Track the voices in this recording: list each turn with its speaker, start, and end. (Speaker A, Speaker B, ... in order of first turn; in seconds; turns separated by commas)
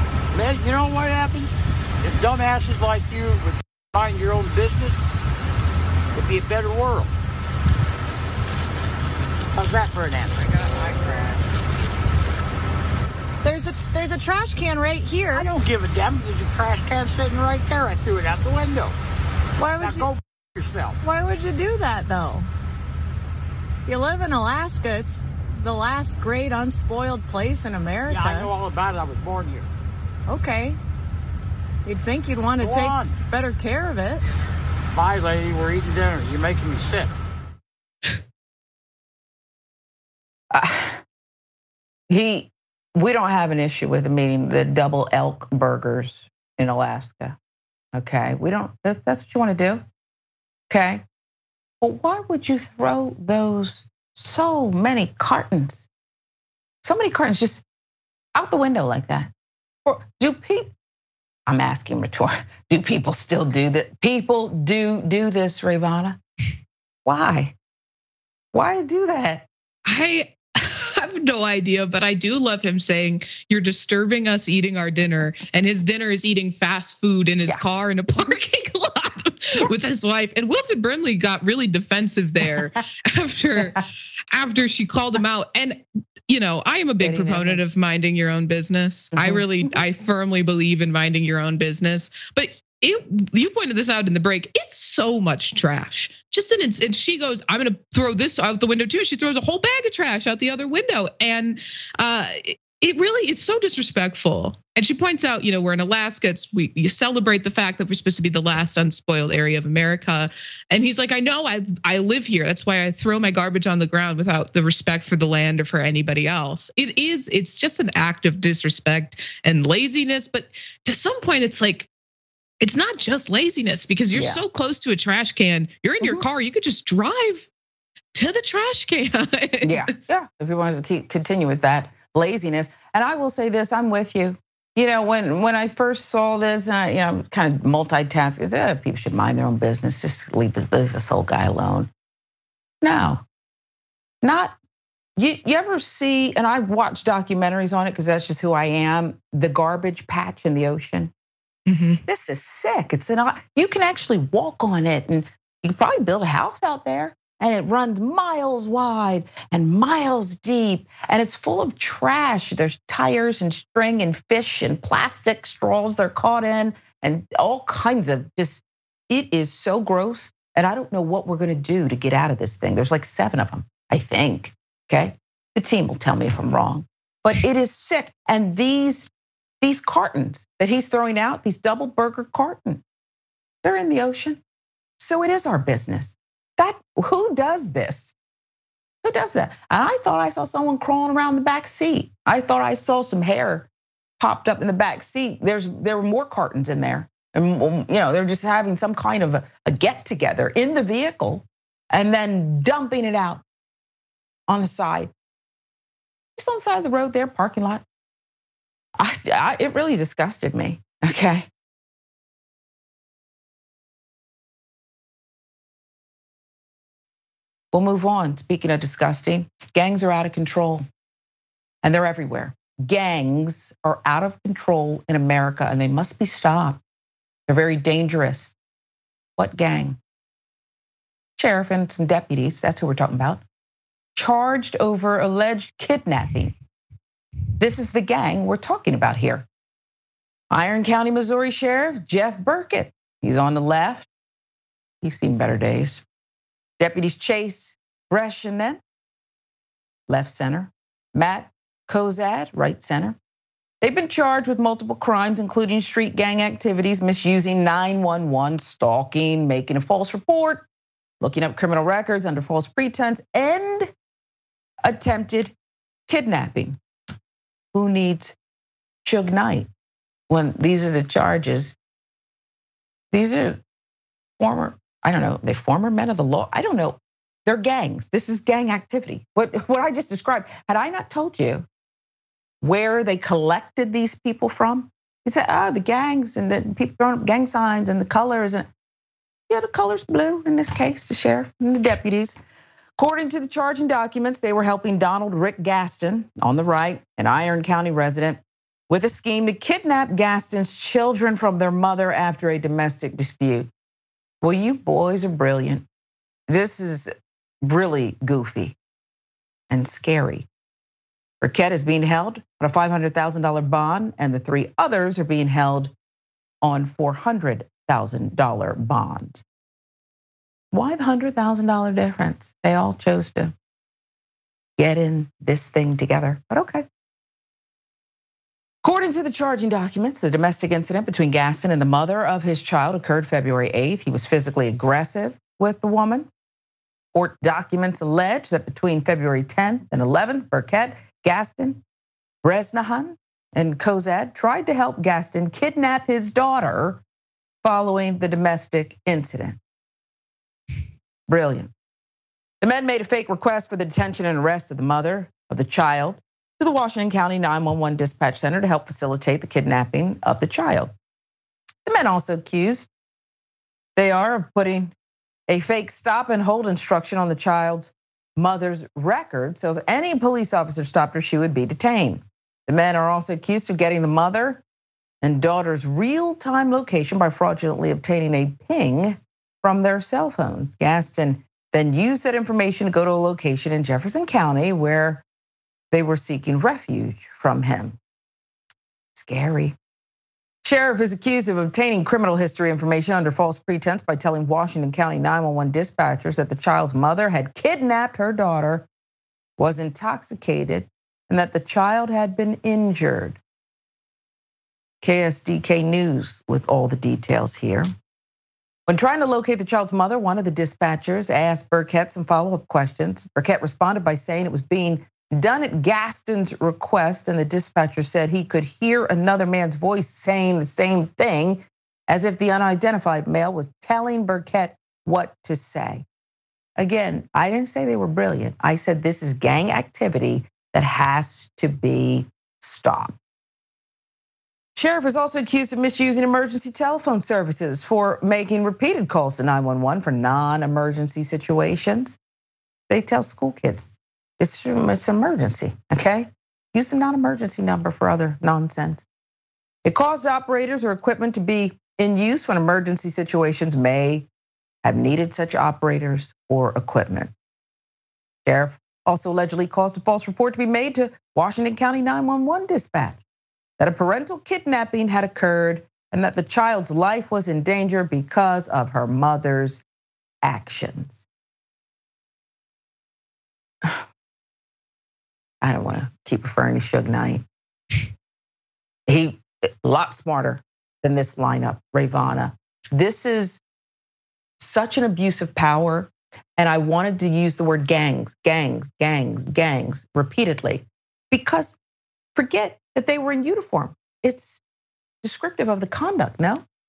Speaker A: 0.3-1.5, Speaker A: 2.0-5.0, Speaker A: 6.1-7.1, Speaker A: 9.6-11.4, Speaker B: 13.4-15.5, Speaker A: 15.3-18.9, Speaker B: 19.6-20.1, Speaker A: 19.8-21.0, Speaker B: 21.0-22.5, Speaker B: 23.9-28.5, Speaker A: 28.1-29.7, Speaker B: 30.3-30.8, Speaker B: 31.8-34.2, Speaker A: 32.6-33.2, Speaker A: 34.9-37.1, Speaker C: 40.5-41.0, Speaker C: 42.1-47.4, Speaker C: 47.9-49.8, Speaker C: 50.7-51.0, Speaker C: 51.8-55.9, Speaker C: 56.8-57.6, Speaker C: 58.3-59.3, Speaker C: 59.8-60.7, Speaker C: 61.5-66.2, Speaker C: 67.0-67.5, Speaker C: 68.5-69.5, Speaker D: 69.8-121.9, Speaker C: 87.0-87.6, Speaker C: 89.1-89.5, Speaker D: 122.6-127.5, Speaker C: 124.1-124.4, Speaker D: 128.1-129.9, Speaker C: 129.6-141.9, Speaker C: 142.8-143.2, Speaker C: 144.2-144.6, Speaker C: 145.2-151.1, Speaker D: 151.7-152.0, Speaker C: 152.1-179.1, Speaker C: 179.6-182.8, Speaker C: 183.6-184.4, Speaker C: 185.0-188.1, Speaker C: 189.0-193.7, Speaker C: 194.2-203.4, Speaker C: 204.5-205.1, Speaker C: 206.4-207.8, Speaker C: 209.0-211.5, Speaker C: 217.7-220.8, Speaker C: 221.8-226.8, Speaker C: 227.5-228.6, Speaker C: 229.4-230.0, Speaker C: 231.4-233.4, Speaker C: 234.2-236.6, Speaker C: 237.6-239.4, Speaker C: 240.5-244.1, Speaker C: 245.0-246.0, Speaker C: 246.8-248.8, Speaker C: 250.1-253.2, Speaker C: 253.8-260.6, Speaker C: 261.2-263.9, Speaker C: 264.8-265.5, Speaker C: 266.1-266.8, Speaker C: 267.7-268.3, Speaker C: 269.0-269.7, Speaker C: 270.3-271.8, Speaker C: 273.1-273.6, Speaker C: 274.4-281.6, Speaker C: 282.6-288.7, Speaker C: 289.5-292.4, Speaker C: 293.0-303.7, Speaker C: 304.4-305.9, Speaker C: 306.5-307.1, Speaker C: 307.6-308.7, Speaker C: 309.7-310.5, Speaker C: 311.4-315.9, Speaker C: 316.6-319.4, Speaker C: 320.7-323.5, Speaker C: 324.8-326.8, Speaker C: 328.8-336.3, Speaker C: 337.1-341.8, Speaker C: 342.4-347.0, Speaker C: 347.6-349.6, Speaker C: 351.3-351.7, Speaker C: 352.6-360.9, Speaker C: 361.9-362.9, Speaker C: 363.9-364.9, Speaker C: 365.5-374.6, Speaker C: 375.2-385.2, Speaker C: 385.9-388.0, Speaker C: 389.1-389.8, Speaker C: 390.6-398.9, Speaker C: 399.6-403.4, Speaker C: 405.0-407.9, Speaker C: 408.9-426.0, Speaker C: 426.8-433.1, Speaker C: 434.8-442.2, Speaker C: 442.9-449.0, Speaker C: 449.8-454.3, Speaker C: 454.8-457.3, Speaker C: 458.4-463.2, Speaker C: 463.8-469.8, Speaker C: 470.4-471.2, Speaker C: 475.6-477.4, Speaker C: 479.1-483.6, Speaker C: 484.6-491.8, Speaker C: 492.3-494.6, Speaker C: 495.2-496.6